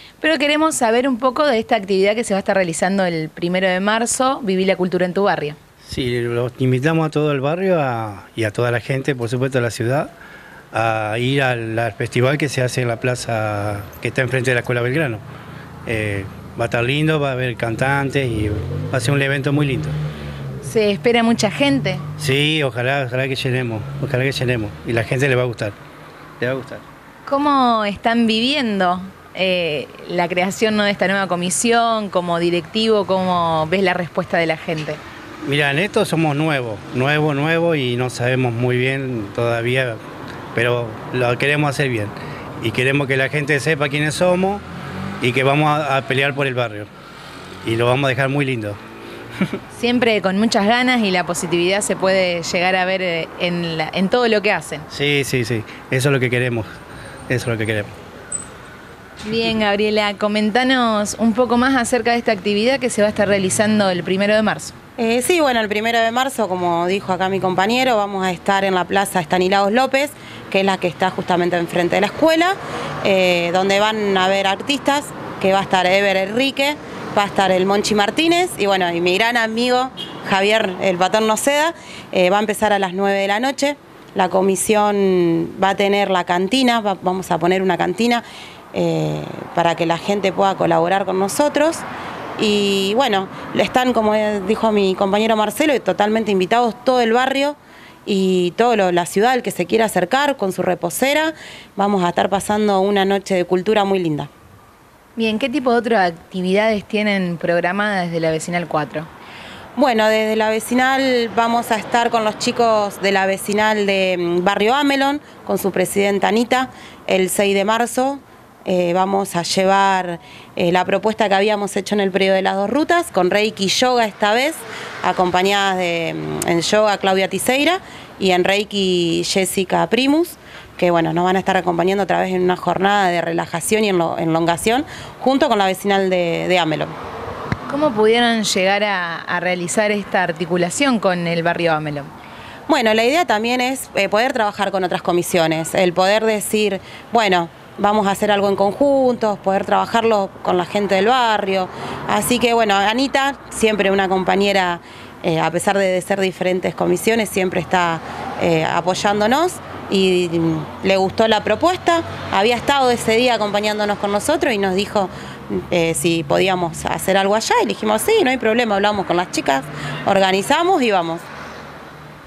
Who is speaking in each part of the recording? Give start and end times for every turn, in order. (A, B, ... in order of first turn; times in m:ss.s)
0:00.2-0:05.6 A
0:05.8-0:10.1 B
0:10.7-0:15.2 B
0:15.8-0:20.0 B
0:20.6-0:22.0 A
0:22.2-0:25.8 B
0:26.4-0:26.8 B
0:27.2-0:35.0 A
0:35.4-0:40.0 B
0:40.5-0:44.6 B
0:45.2-0:46.9 B
0:47.6-0:48.8 B
0:49.7-0:54.9 A
0:54.9-0:56.7 B
0:57.3-0:57.9 B
0:59.2-1:04.7 A
1:05.0-1:31.8 C
1:32.4-1:44.3 C
1:45.2-1:49.1 A
1:49.8-2:16.9 C
2:17.7-2:22.1 A
2:22.7-2:51.2 C